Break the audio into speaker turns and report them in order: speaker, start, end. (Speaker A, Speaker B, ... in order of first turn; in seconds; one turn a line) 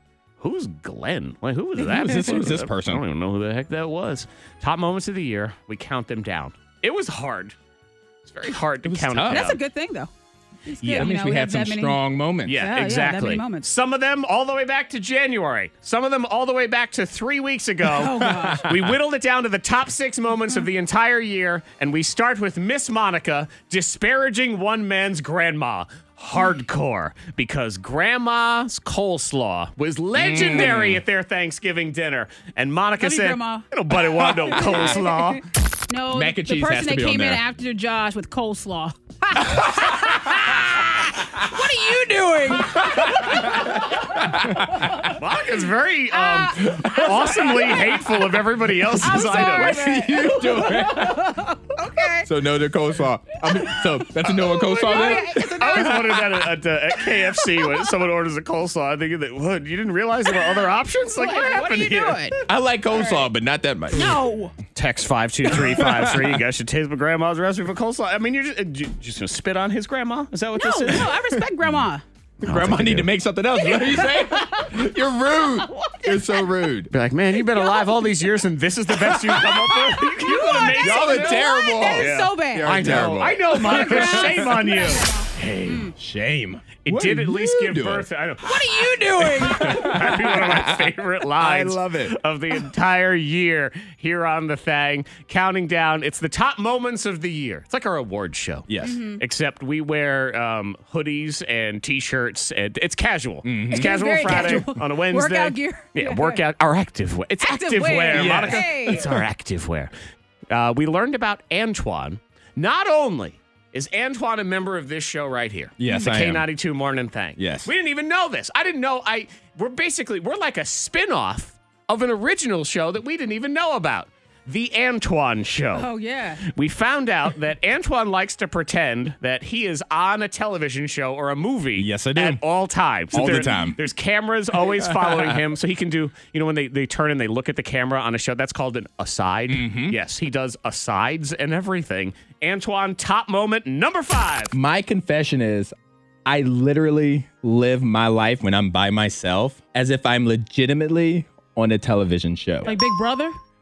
Speaker A: 0.4-7.6
Speaker B: 1.8-3.0
Speaker A: 8.2-9.6
Speaker B: 8.8-9.5
Speaker C: 9.3-10.1
Speaker C: 10.7-13.7
Speaker B: 10.8-12.6
Speaker A: 12.4-35.4
Speaker C: 17.9-18.6
Speaker B: 18.2-19.0
Speaker B: 30.2-31.0
Speaker C: 33.0-33.6
Speaker B: 34.3-34.8
Speaker C: 34.5-35.4
Speaker C: 35.9-44.1
Speaker B: 36.1-37.4
Speaker B: 40.1-40.5
Speaker B: 42.6-45.1
Speaker A: 45.0-49.8
Speaker C: 46.1-48.0
Speaker B: 46.7-47.5
Speaker C: 49.0-52.3
Speaker B: 49.0-51.3
Speaker B: 52.2-56.3
Speaker C: 54.2-56.2
Speaker A: 54.9-62.3
Speaker C: 61.2-62.4
Speaker B: 62.5-64.2
Speaker C: 63.9-64.5
Speaker A: 64.8-71.2
Speaker B: 65.5-66.4
Speaker C: 70.5-72.0
Speaker B: 71.0-71.9
Speaker A: 72.4-73.1
Speaker B: 72.4-76.9
Speaker C: 73.6-74.7
Speaker C: 75.4-76.5
Speaker A: 76.9-85.9
Speaker C: 77.5-78.2
Speaker C: 79.0-82.9
Speaker B: 80.7-84.6
Speaker C: 83.5-85.9
Speaker B: 86.0-88.1
Speaker A: 86.8-109.9
Speaker C: 88.4-90.2
Speaker B: 89.2-92.2
Speaker B: 98.7-99.0
Speaker C: 98.8-99.2
Speaker B: 103.4-104.6
Speaker C: 103.7-106.4
Speaker C: 107.4-109.1
Speaker B: 108.1-109.2
Speaker A: 110.5-125.9
Speaker B: 115.8-116.5
Speaker B: 117.4-117.7
Speaker C: 125.8-126.4
Speaker A: 126.4-144.6
Speaker B: 131.8-132.4
Speaker B: 133.1-133.8
Speaker B: 134.7-135.4
Speaker B: 139.5-140.0
Speaker B: 144.5-145.7
Speaker B: 146.3-152.7
Speaker C: 152.7-153.4